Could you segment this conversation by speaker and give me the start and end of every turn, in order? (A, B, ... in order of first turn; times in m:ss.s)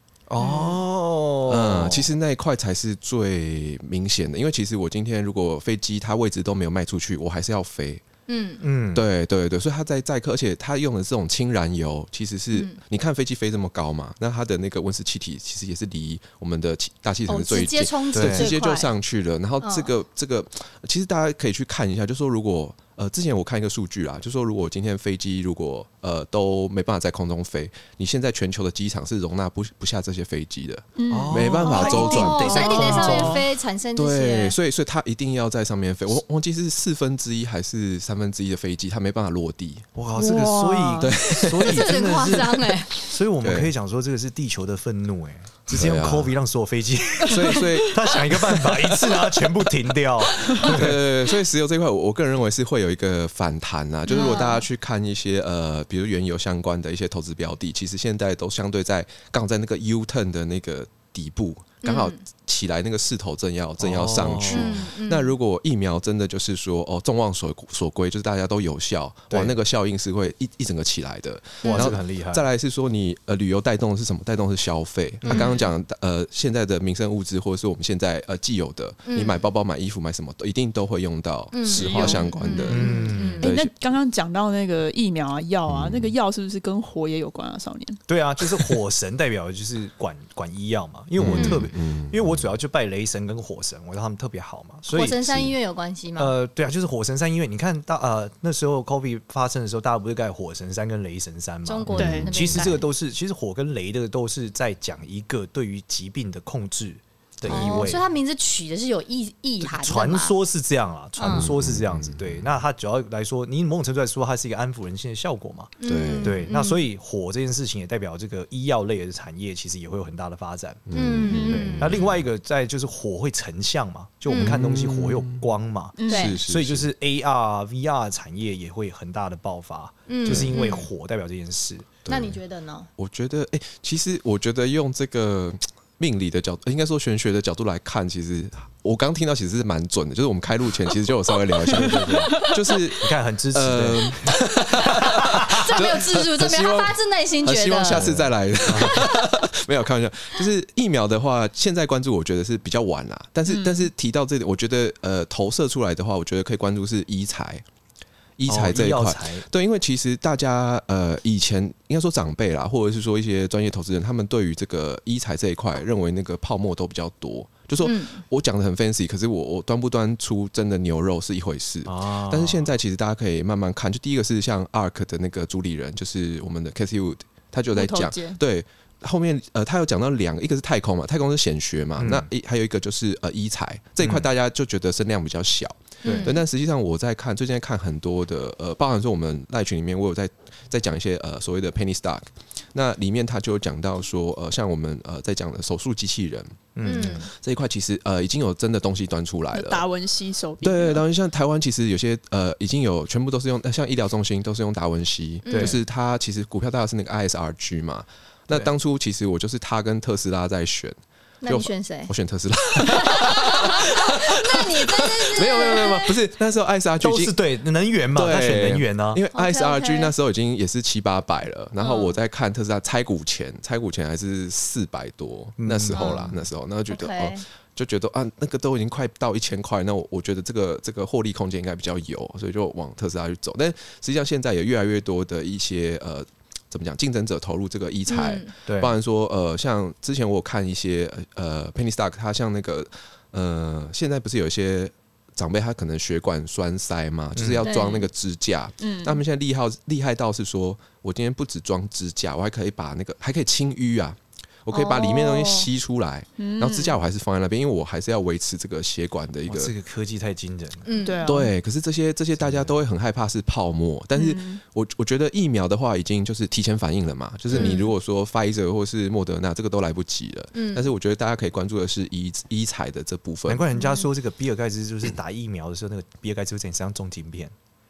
0:00.3-0:02.1 A
0:00.4-0:00.8 B
0:01.5-0:08.0 C
0:08.3-0:08.6 D
0:08.6-0:09.0 A
0:08.9-0:33.2 C
0:17.3-0:18.9 D
0:18.1-0:18.6 A
0:19.6-0:19.9 D
0:31.0-0:33.4 B
0:31.1-0:33.4 A
0:31.6-0:34.5 D
0:33.9-0:39.8 C
0:39.9-0:51.0 A
0:40.2-0:41.5 B
0:41.0-0:42.7 C
0:41.6-0:43.0 D
0:43.4-0:43.7 C
0:45.7-0:46.3 C
0:47.2-0:49.5 C
0:50.6-1:23.7 C
0:54.1-0:54.6 D
1:01.8-1:02.2 D
1:03.8-1:04.8 A
1:04.4-1:05.4 D
1:09.3-1:09.6 A
1:11.6-1:11.9 D
1:11.7-1:12.4 A
1:15.2-1:15.5 A
1:15.2-1:15.6 D
1:19.0-1:19.4 D
1:21.5-1:23.5 D
1:21.8-1:22.6 B
1:22.6-1:23.5 A
1:23.4-1:28.0 B
1:25.7-1:26.1 C
1:28.1-1:35.5 A
1:31.2-1:32.3 C
1:31.3-1:31.6 D
1:34.9-1:36.3 D
1:36.2-1:48.0 A
1:41.6-1:42.9 D
1:41.9-1:42.6 C
1:41.9-1:42.3 B
1:47.4-1:47.9 C
1:47.5-1:50.4 D
1:49.6-2:11.9 A
1:51.2-1:51.5 D
1:51.3-1:52.4 C
1:55.8-1:56.8 D
1:55.8-1:56.5 C
2:00.9-2:02.2 C
2:00.9-2:01.9 D
2:04.3-2:04.6 D
2:04.3-2:05.4 C
2:06.0-2:06.3 B
2:06.1-2:06.4 D
2:06.1-2:06.9 C
2:10.1-2:10.9 D
2:10.2-2:10.6 C
2:12.0-2:12.4 C
2:12.1-2:12.9 D
2:13.0-2:37.6 C
2:21.7-2:25.7 A
2:25.5-2:28.1 D
2:27.9-2:29.1 A
2:28.7-2:29.4 D
2:33.5-2:33.9 B
2:38.4-3:19.8 C
2:38.4-2:39.4 A
2:47.8-2:48.2 D
2:51.8-2:52.7 A
2:57.7-2:58.4 B
3:02.0-3:02.3 A
3:04.0-3:04.3 A
3:06.0-3:06.4 A
3:06.0-3:06.4 D
3:16.8-3:17.2 A
3:16.8-3:17.3 D
3:19.5-3:21.0 B
3:20.6-3:37.4 C
3:25.4-3:25.8 D
3:25.5-3:25.8 A
3:31.4-3:32.1 D
3:32.8-3:36.2 D
3:37.0-3:39.2 A
3:38.1-4:19.7 C
3:39.3-3:40.1 D
3:41.8-3:42.2 D
3:45.6-3:46.4 A
3:45.9-3:46.2 D
3:46.9-3:47.4 D
3:58.1-3:58.5 D
3:58.6-3:58.9 A
4:07.4-4:07.7 A
4:07.6-4:08.1 D
4:08.8-4:09.2 B
4:14.7-4:15.7 D
4:16.4-4:17.0 B
4:19.5-4:20.9 A
4:20.8-4:21.2 D
4:21.0-4:21.5 B
4:21.2-4:33.6 C
4:22.4-4:22.7 A
4:24.1-4:24.6 B
4:27.5-4:27.9 D
4:30.5-4:30.9 D
4:33.5-4:37.5 A